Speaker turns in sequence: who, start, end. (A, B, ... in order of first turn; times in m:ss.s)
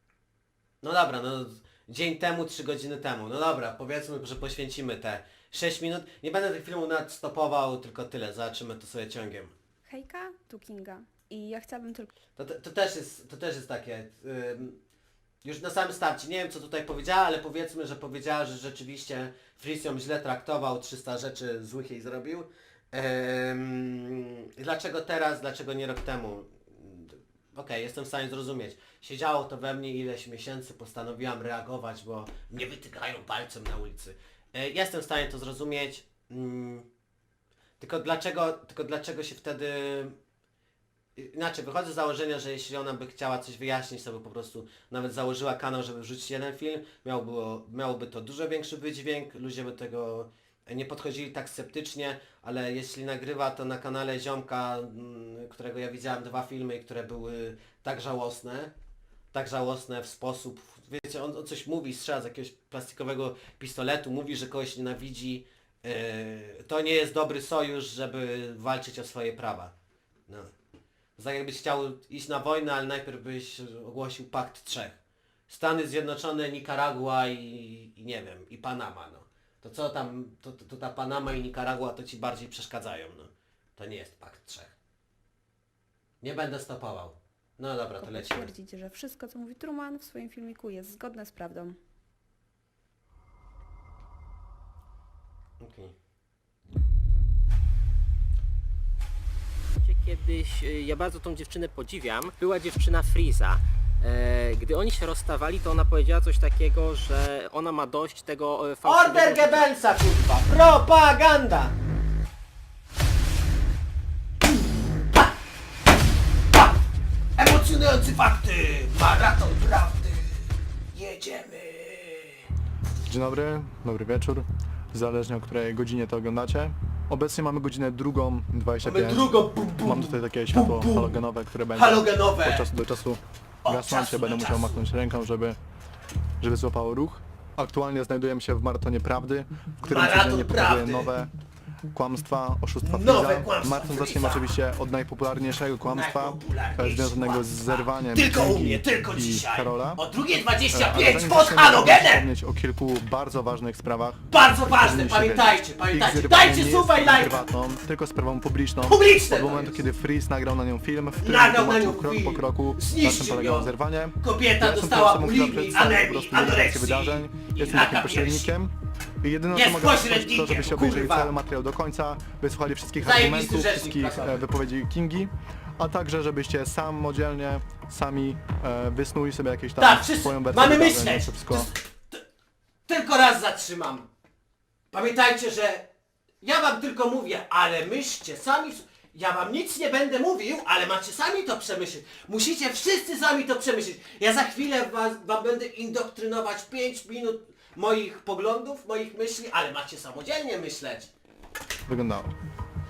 0:00.8-0:09.5 A
0:09.9-0:12.1 B
0:12.4-0:14.8 A
0:15.4-0:36.9 A
0:37.8-0:40.2 A
0:41.2-0:58.7 A
0:59.3-1:09.7 A
1:11.2-1:15.0 A
1:15.5-1:24.7 A
1:26.2-1:28.5 A
1:28.0-1:31.8 B
1:35.6-1:35.9 A
1:39.8-1:49.7 C
1:48.8-1:51.7 A
1:57.4-2:02.4 A
2:03.1-2:15.6 D
2:08.8-2:11.2 A
2:11.7-2:12.7 A
2:13.6-2:14.8 A
2:16.4-2:21.3 D
2:19.8-2:21.1 A
2:21.9-2:30.0 D
2:22.8-2:24.6 A
2:25.9-2:32.3 A
2:30.7-3:01.7 D
2:34.3-2:37.4 A
2:38.8-2:39.8 A
2:41.2-2:48.5 A
2:49.5-2:51.3 A
2:53.0-2:54.5 A
2:59.8-3:02.2 A
3:02.9-3:04.1 A
3:04.9-3:05.9 A
3:06.4-3:21.1 A
3:21.9-3:22.3 D